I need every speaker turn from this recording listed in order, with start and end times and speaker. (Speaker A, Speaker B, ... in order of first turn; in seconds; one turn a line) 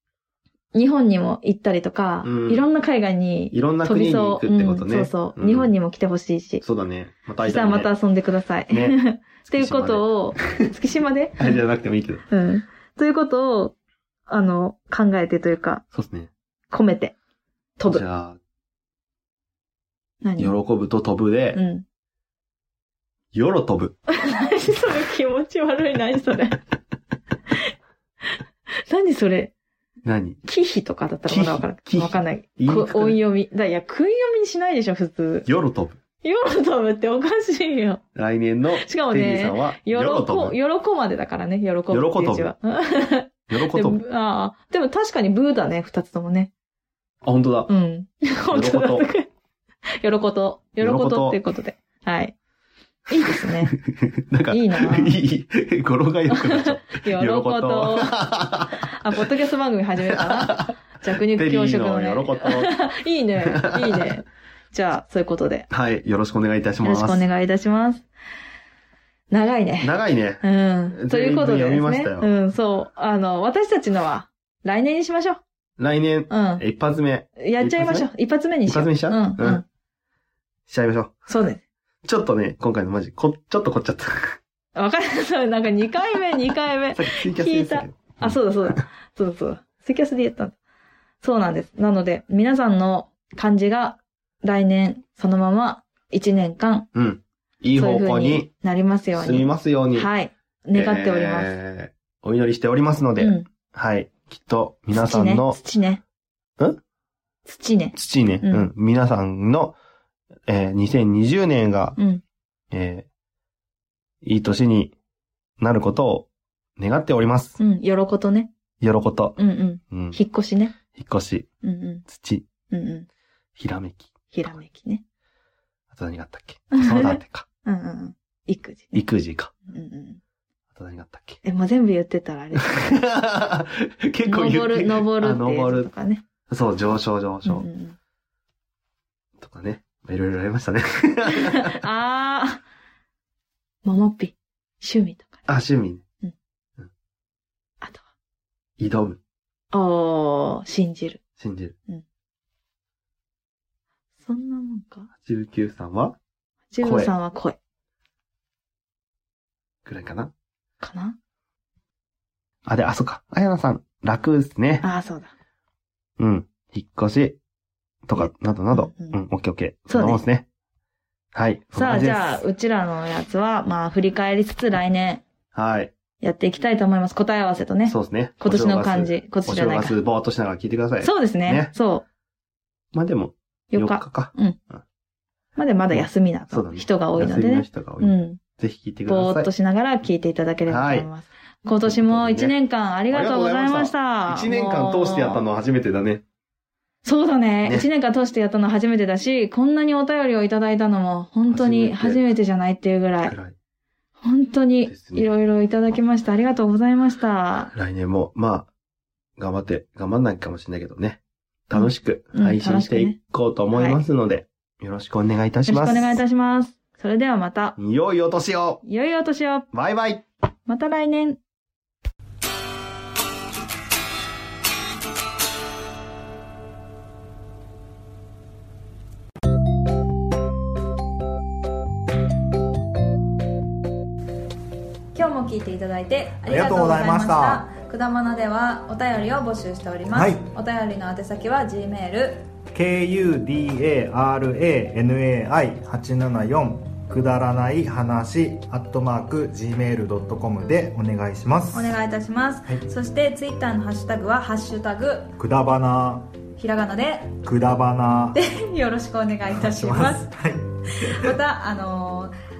Speaker A: 0.7-6.6
Speaker B: 2.2-2.6
Speaker B: 3.5-5.7
Speaker B: 6.6-7.9
Speaker A: 7.4-11.6
Speaker B: 8.7-10.6
Speaker B: 11.4-12.2
Speaker A: 12.3-13.8
Speaker A: 14.3-15.8
Speaker B: 15.9-16.3
Speaker A: 16.7-17.1
Speaker A: 17.8-18.0
Speaker B: 17.9-18.4
Speaker A: 20.2-20.6
Speaker B: 20.4-21.6
Speaker A: 21.5-21.9
Speaker B: 23.3-24.0
Speaker A: 24.1-26.6
Speaker A: 28.9-29.5
Speaker B: 30.0-30.4
Speaker A: 30.4-35.5
Speaker B: 31.3-33.2
Speaker B: 35.5-36.0
Speaker A: 36.2-38.0
Speaker B: 38.1-40.6
Speaker A: 38.8-46.5
Speaker B: 41.9-42.5
Speaker B: 43.5-44.0
Speaker B: 47.2-47.7
Speaker A: 47.7-49.3
Speaker B: 48.5-49.1
Speaker A: 50.0-52.4
Speaker B: 50.8-51.4
Speaker A: 53.1-53.8
Speaker B: 53.4-58.9
Speaker A: 54.5-55.2
Speaker A: 56.3-58.2
Speaker A: 58.7-65.7
Speaker B: 60.1-62.8
Speaker B: 63.5-64.2
Speaker B: 65.7-67.2
Speaker A: 66.8-68.0
Speaker A: 69.3-75.4
Speaker B: 69.8-72.3
Speaker B: 75.8-78.1
Speaker A: 76.3-76.6
Speaker A: 77.4-79.6
Speaker B: 78.7-79.6
Speaker B: 80.7-81.2
Speaker A: 81.3-81.6
Speaker B: 82.0-84.4
Speaker A: 84.8-90.5
Speaker B: 86.9-88.8
Speaker A: 91.2-96.9
Speaker B: 96.9-98.5
Speaker A: 97.8-101.5
Speaker B: 99.2-100.1
Speaker B: 100.7-105.6
Speaker A: 103.2-103.5
Speaker A: 104.9-106.0
Speaker A: 107.5-108.7
Speaker B: 107.9-109.8
Speaker B: 110.5-112.0
Speaker A: 112.0-112.2
Speaker B: 112.7-113.1
Speaker B: 114.2-114.9
Speaker B: 115.6-117.6
Speaker A: 117.6-118.5
Speaker B: 118.8-119.4
Speaker A: 119.4-120.8
Speaker B: 119.9-120.2
Speaker B: 120.9-121.5
Speaker A: 121.6-122.1
Speaker B: 122.1-122.5
Speaker A: 122.7-123.1
Speaker B: 123.6-124.1
Speaker A: 124.3-125.0
Speaker B: 125.9-127.5
Speaker A: 126.7-129.0
Speaker B: 128.9-129.5
Speaker A: 129.7-130.2
Speaker B: 130.7-131.4
Speaker A: 131.4-132.8
Speaker B: 132.6-135.9
Speaker A: 134.2-136.2
Speaker B: 136.5-137.7
Speaker A: 137.4-138.0
Speaker B: 139.4-141.8
Speaker A: 141.3-142.6
Speaker A: 143.8-145.5
Speaker B: 145.5-146.0
Speaker B: 148.8-149.2
Speaker A: 149.7-151.2
Speaker B: 151.4-151.8
Speaker A: 154.2-155.1
Speaker B: 155.2-156.2
Speaker A: 156.7-157.6
Speaker B: 156.8-157.1
Speaker B: 159.8-160.3
Speaker A: 160.8-161.2
Speaker B: 162.7-164.8
Speaker A: 164.8-165.3
Speaker B: 166.2-167.4
Speaker B: 168.1-170.5
Speaker A: 168.2-169.2
Speaker A: 169.9-170.2
Speaker B: 171.3-172.4
Speaker A: 171.7-175.2
Speaker B: 175.5-175.9
Speaker A: 176.2-180.0
Speaker B: 177.9-181.7
Speaker A: 181.0-182.1
Speaker B: 182.9-184.8
Speaker A: 183.7-184.6
Speaker A: 185.6-188.4
Speaker B: 185.9-189.5
Speaker A: 189.1-195.4
Speaker B: 190.7-191.1
Speaker B: 191.8-192.6
Speaker B: 193.1-196.2
Speaker A: 197.1-203.3
Speaker B: 201.5-202.2
Speaker B: 203.2-203.6
Speaker A: 204.2-207.7
Speaker B: 204.9-205.3
Speaker B: 207.7-208.7
Speaker B: 209.4-216.2
Speaker A: 211.7-213.2
Speaker A: 213.7-214.0
Speaker A: 215.7-217.8
Speaker B: 217.8-218.8
Speaker A: 218.8-219.7
Speaker B: 219.7-220.2
Speaker A: 220.7-221.4
Speaker A: 235.1-242.4
Speaker C: 236.4-237.7
Speaker C: 240.1-240.5
Speaker C: 242.7-252.0
Speaker A: 251.7-255.3
Speaker C: 255.4-256.3
Speaker A: 256.6-257.4
Speaker C: 257.4-258.4
Speaker A: 258.3-260.3
Speaker C: 259.6-261.3
Speaker A: 261.1-262.3